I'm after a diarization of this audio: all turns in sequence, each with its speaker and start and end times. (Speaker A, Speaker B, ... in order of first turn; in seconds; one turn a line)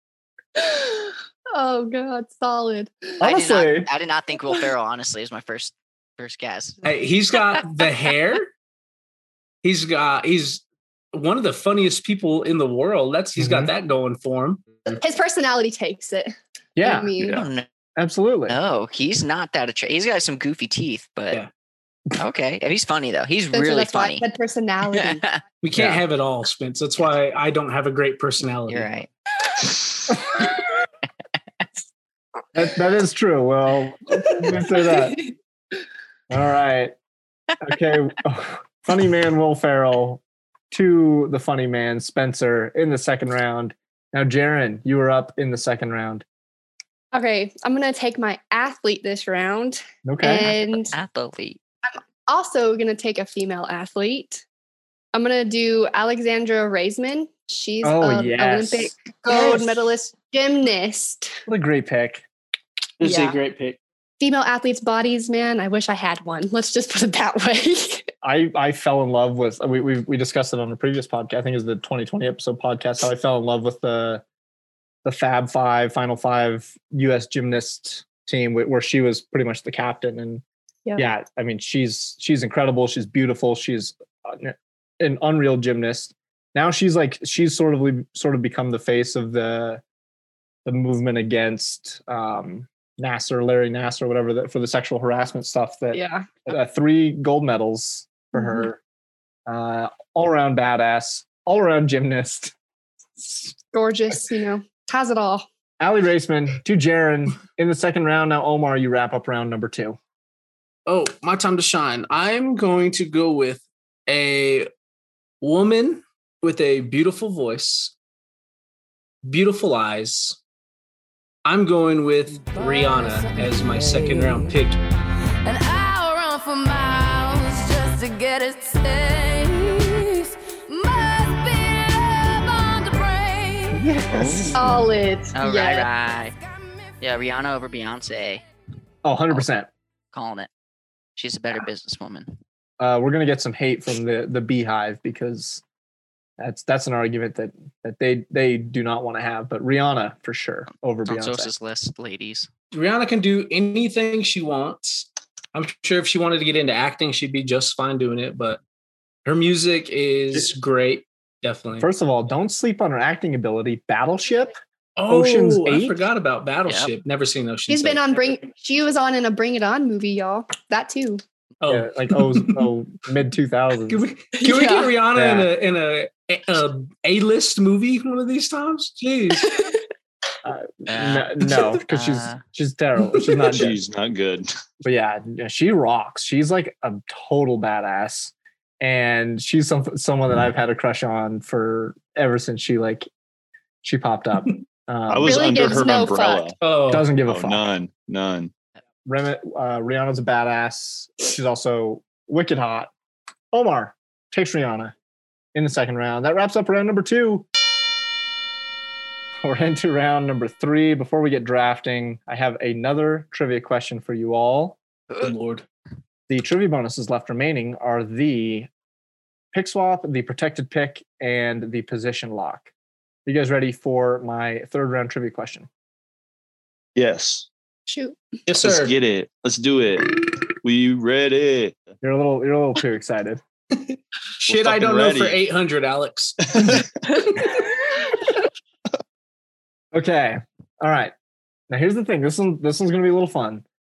Speaker A: 0.6-3.2
Speaker B: 3.2-3.9
Speaker C: 3.2-6.8
Speaker D: 6.8-8.5
Speaker D: 9.6-15.0
Speaker B: 13.4-13.7
Speaker A: 14.9-17.4
Speaker B: 16.8-17.1
Speaker C: 17.2-17.7
Speaker B: 18.0-18.6
Speaker C: 18.5-21.4
Speaker C: 22.2-24.3
Speaker A: 23.5-25.2
Speaker C: 24.9-25.4
Speaker D: 25.6-28.9
Speaker B: 25.7-26.0
Speaker C: 28.7-29.1
Speaker B: 32.5-35.3
Speaker B: 36.3-36.9
Speaker B: 37.6-46.2
Speaker A: 47.1-50.9
Speaker B: 50.0-50.5
Speaker C: 50.7-51.6
Speaker A: 52.3-54.5
Speaker A: 55.1-61.4
Speaker B: 57.8-59.7
Speaker B: 61.5-62.2
Speaker D: 63.0-63.8
Speaker A: 63.0-63.4
Speaker A: 64.2-68.1
Speaker B: 68.2-74.2
Speaker B: 75.0-80.4
Speaker B: 81.0-89.8
Speaker B: 90.7-98.8
Speaker A: 95.9-96.3
Speaker A: 98.3-98.7
Speaker B: 99.5-102.5
Speaker B: 103.2-103.5
Speaker A: 103.7-105.5
Speaker B: 105.8-110.0
Speaker D: 110.9-114.7
Speaker D: 115.4-117.9
Speaker D: 119.2-120.4
Speaker D: 121.5-124.8
Speaker E: 122.6-124.4
Speaker E: 125.5-133.8
Speaker B: 133.7-134.7
Speaker F: 134.1-134.8
Speaker A: 134.6-135.9
Speaker C: 135.3-136.3
Speaker C: 137.0-138.4
Speaker B: 139.0-139.7
Speaker C: 140.1-140.5
Speaker C: 141.2-142.4
Speaker B: 142.8-145.6
Speaker B: 146.4-151.5
Speaker C: 151.1-152.5
Speaker D: 152.7-158.6
Speaker D: 159.2-161.9
Speaker B: 161.8-164.6
Speaker D: 165.0-168.0
Speaker B: 165.1-166.0
Speaker C: 166.7-166.9
Speaker A: 167.7-171.2
Speaker D: 171.6-172.7
Speaker B: 171.7-174.0
Speaker D: 173.9-179.7
Speaker A: 174.4-174.9
Speaker B: 175.1-175.5
Speaker B: 180.4-183.8
Speaker C: 180.9-181.3
Speaker C: 181.9-182.4
Speaker F: 183.5-184.5
Speaker B: 184.8-193.1
Speaker B: 193.8-195.9
Speaker F: 195.1-196.6
Speaker A: 195.2-196.5
Speaker D: 196.6-197.1
Speaker B: 196.9-197.7
Speaker F: 197.3-198.5
Speaker B: 199.0-202.9
Speaker B: 203.5-204.9
Speaker B: 205.6-207.5
Speaker B: 209.4-214.8
Speaker D: 215.2-215.7
Speaker B: 216.3-218.7
Speaker B: 219.5-222.7
Speaker B: 223.3-225.7
Speaker F: 227.0-227.5
Speaker A: 227.9-228.4
Speaker D: 228.5-228.9
Speaker F: 228.6-231.8
Speaker B: 232.0-233.4
Speaker D: 233.7-236.8
Speaker F: 234.5-235.4
Speaker F: 236.6-236.8
Speaker A: 237.2-237.5
Speaker B: 239.9-241.1
Speaker B: 241.7-243.6